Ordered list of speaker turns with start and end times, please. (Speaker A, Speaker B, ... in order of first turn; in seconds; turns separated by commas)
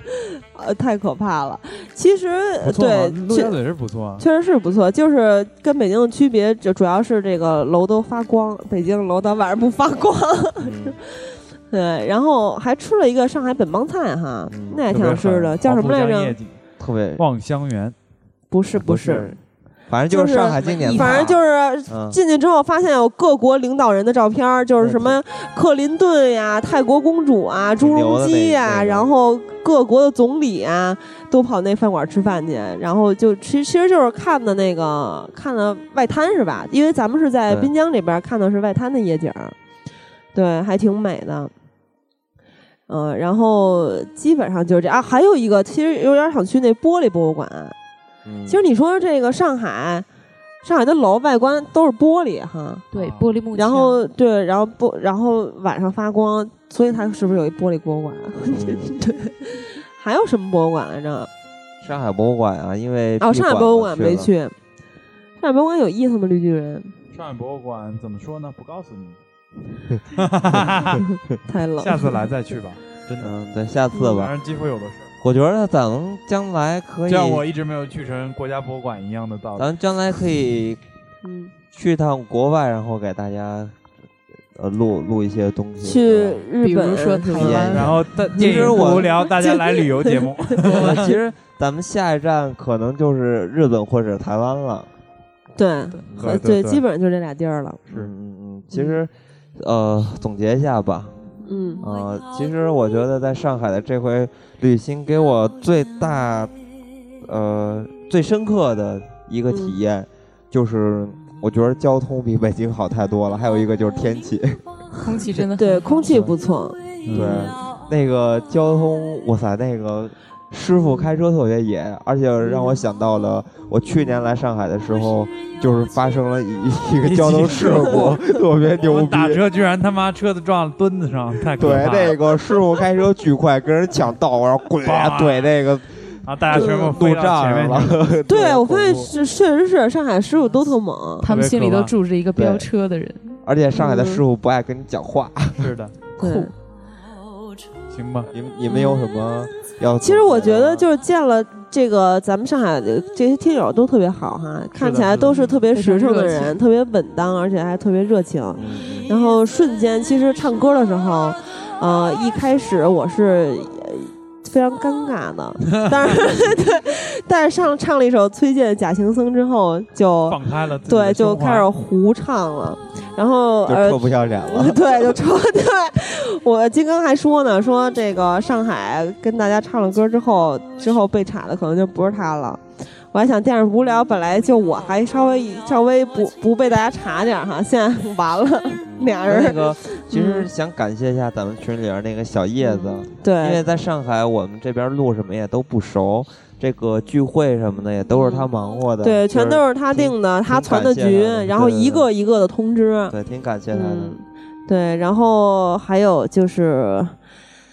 Speaker A: 0.1-3.6, Speaker B: 2.6-4.2, Speaker A: 4.2-16.4, Speaker C: 10.6-11.0, Speaker C: 14.5-15.3, Speaker B: 14.9-16.6, Speaker C: 16.8-17.2, Speaker B: 17.2-18.0, Speaker A: 18.5-19.4, Speaker C: 18.7-19.4, Speaker C: 19.9-21.4, Speaker A: 20.1-39.5, Speaker B: 20.6-21.3, Speaker C: 21.9-22.2, Speaker C: 24.8-25.2, Speaker C: 27.8-29.1, Speaker A: 40.3-41.5, Speaker A: 42.9-47.8, Speaker C: 48.2-48.6, Speaker A: 48.5-50.1, Speaker A: 50.6-52.9, Speaker D: 52.9-54.1, Speaker B: 52.9-53.4, Speaker A: 53.5-61.3, Speaker C: 58.5-58.9, Speaker C: 61.8-64.3, Speaker A: 63.2-64.5, Speaker A: 65.4-66.9, Speaker B: 67.1-69.2, Speaker B: 70.1-71.1, Speaker A: 71.5-72.1, Speaker B: 71.8-73.3, Speaker C: 73.2-74.3, Speaker B: 74.0-75.1, Speaker C: 75.2-77.5, Speaker B: 77.1-79.7, Speaker C: 79.6-80.8, Speaker A: 81.2-81.5, Speaker C: 81.7-83.8, Speaker C: 84.5-86.4, Speaker A: 85.8-87.8, Speaker D: 86.6-87.9, Speaker C: 87.3-89.1, Speaker B: 87.7-91.2, Speaker A: 88.4-91.0, Speaker C: 90.6-94.9, Speaker A: 95.6-97.8, Speaker C: 96.1-96.4, Speaker B: 96.2-96.8, Speaker C: 97.9-101.2, Speaker A: 98.7-99.0, Speaker A: 101.5-101.8, Speaker C: 101.8-106.5, Speaker C: 107.2-115.5, Speaker A: 109.5-109.8, Speaker D: 115.0-116.3, Speaker A: 115.6-117.5, Speaker B: 117.0-117.5, Speaker C: 117.1-129.4, Speaker A: 122.4-122.8, Speaker B: 127.0-132.2, Speaker C: 131.6-139.1, Speaker B: 134.8-135.5, Speaker B: 136.3-138.8, Speaker A: 136.5-136.9, Speaker A: 138.3-141.3, Speaker D: 141.2-143.4, Speaker B: 141.2-142.0, Speaker C: 142.3-142.7, Speaker C: 143.4-145.7, Speaker A: 143.8-144.2, Speaker B: 145.6-146.0, Speaker A: 146.2-146.5, Speaker D: 146.2-146.5, Speaker B: 147.9-148.3, Speaker C: 148.3-150.9, Speaker A: 148.7-149.0, Speaker A: 150.0-190.5, Speaker B: 154.8-155.6, Speaker D: 155.7-156.6, Speaker C: 158.6-159.1, Speaker B: 165.7-166.0, Speaker B: 170.3-171.7, Speaker C: 173.7-175.2, Speaker C: 188.8-202.1, Speaker A: 192.6-193.6, Speaker A: 198.1-198.5, Speaker A: 199.0-203.2, Speaker C: 203.1-204.2, Speaker A: 203.7-207.2